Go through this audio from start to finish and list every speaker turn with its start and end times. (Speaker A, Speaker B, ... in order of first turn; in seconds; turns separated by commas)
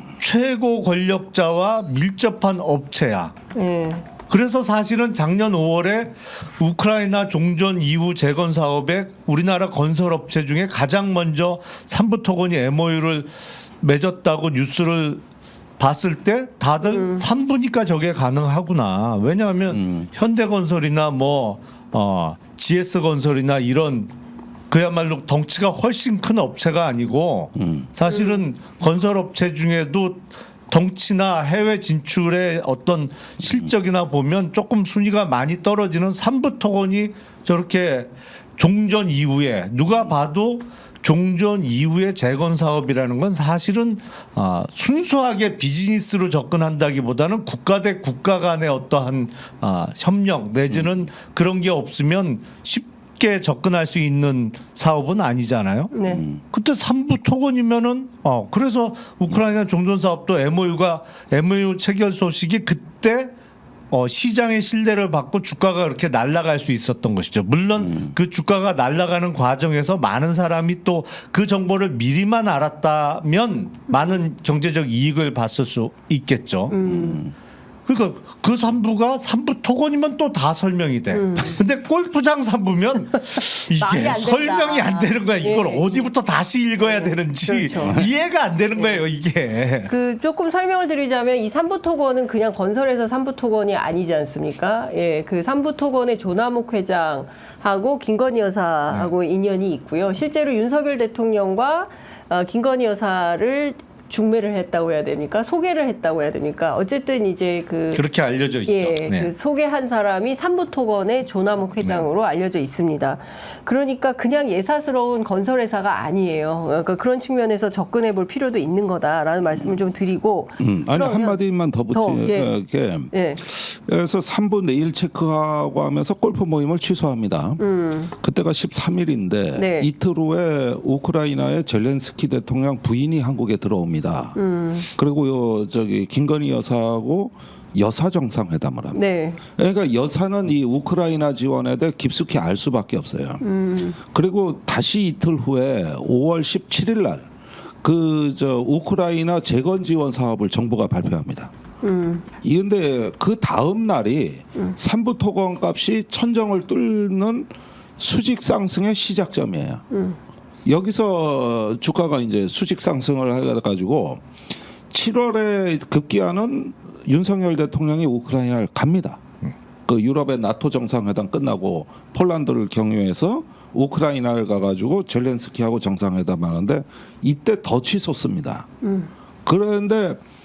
Speaker A: 0.2-3.3, Speaker B: 3.5-4.0, Speaker A: 4.3-15.2, Speaker A: 15.8-24.1, Speaker B: 16.8-17.2, Speaker C: 19.7-20.1, Speaker A: 24.7-55.9, Speaker C: 27.6-27.9, Speaker B: 28.1-28.4, Speaker C: 33.4-33.7, Speaker B: 55.9-56.2, Speaker C: 56.0-56.4, Speaker A: 56.5-63.3, Speaker A: 63.9-76.8, Speaker C: 67.8-68.1, Speaker B: 76.7-77.2, Speaker C: 76.8-77.3, Speaker A: 77.8-89.9, Speaker B: 81.1-81.6, Speaker B: 83.7-86.1, Speaker B: 86.8-88.1, Speaker B: 88.7-89.0, Speaker B: 89.8-108.0, Speaker A: 107.9-109.3, Speaker B: 108.6-122.5, Speaker C: 120.6-127.6, Speaker B: 123.1-123.4, Speaker B: 127.6-128.1, Speaker C: 128.1-134.3, Speaker B: 129.5-129.9, Speaker B: 134.3-134.9, Speaker C: 134.9-139.0, Speaker B: 138.9-139.4, Speaker C: 139.6-143.4, Speaker B: 143.4-144.0, Speaker C: 144.0-147.2, Speaker C: 147.8-151.5, Speaker B: 151.8-152.2, Speaker C: 152.4-159.8, Speaker B: 159.9-160.2, Speaker C: 160.7-164.2, Speaker C: 164.9-169.2, Speaker C: 169.9-178.7, Speaker B: 178.8-179.1, Speaker C: 179.4-180.2